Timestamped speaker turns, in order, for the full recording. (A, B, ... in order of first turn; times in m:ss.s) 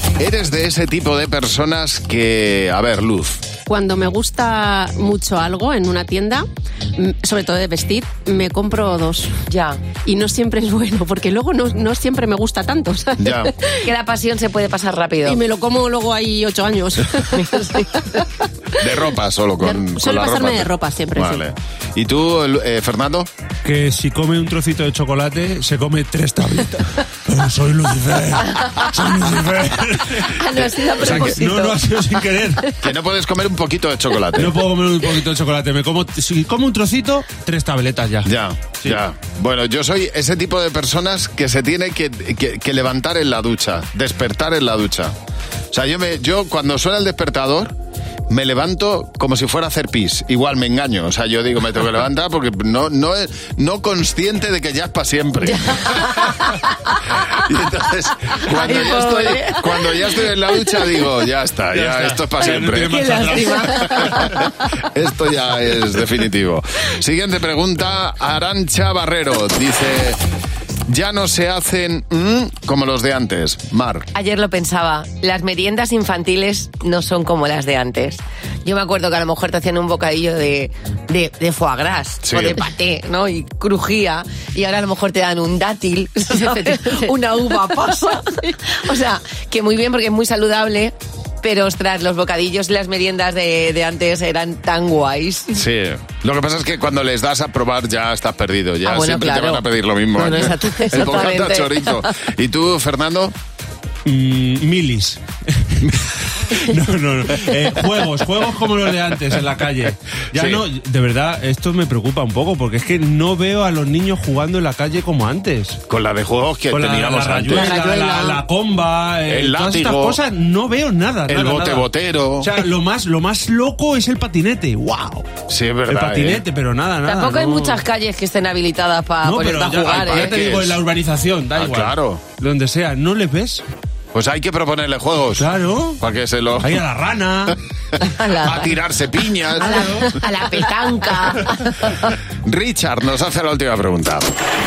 0:00.2-0:03.4 A
0:03.7-0:09.3 B
0:09.5-0:09.8 C
0:10.0-0:13.9 B
0:13.2-0:13.5 A
0:13.8-0:15.4 C
0:15.2-0:18.3 B
0:18.8-0:23.3 A
0:19.6-0:21.4 B
0:23.6-0:32.7 D
0:30.2-0:31.8 C
0:31.0-0:31.4 A
0:32.8-0:34.6 A
0:34.4-0:39.0 D
0:38.2-0:45.1 A
0:45.7-0:47.7 A
0:48.3-0:55.9 A
0:55.5-0:57.3 C
0:57.2-1:10.2 A
0:58.4-1:00.6 C
1:01.7-1:04.4 D
1:02.4-1:04.7 C
1:10.9-1:14.1 A
1:14.1-1:35.6 C
1:22.2-1:22.6 A
1:26.5-1:27.1 B
1:35.5-1:43.3 A
1:38.8-1:42.1 C
1:44.0-1:55.8 D
1:50.4-1:50.6 A
1:55.9-1:57.7 A
1:56.7-2:01.9 D
1:57.5-1:58.4 C
1:59.3-2:00.2 A
2:01.3-2:02.5 A
2:02.4-2:05.3 D
2:05.5-2:06.4 A
2:05.9-2:07.8 D
2:07.0-2:10.5 C
2:09.2-2:13.6 D
2:10.0-2:10.8 A
2:11.6-2:12.2 A
2:14.1-2:16.8 A
2:15.4-2:16.0 D
2:16.6-2:17.6 D
2:17.9-2:19.9 A
2:18.0-2:18.8 C
2:19.6-2:22.1 C
2:22.4-2:24.3 A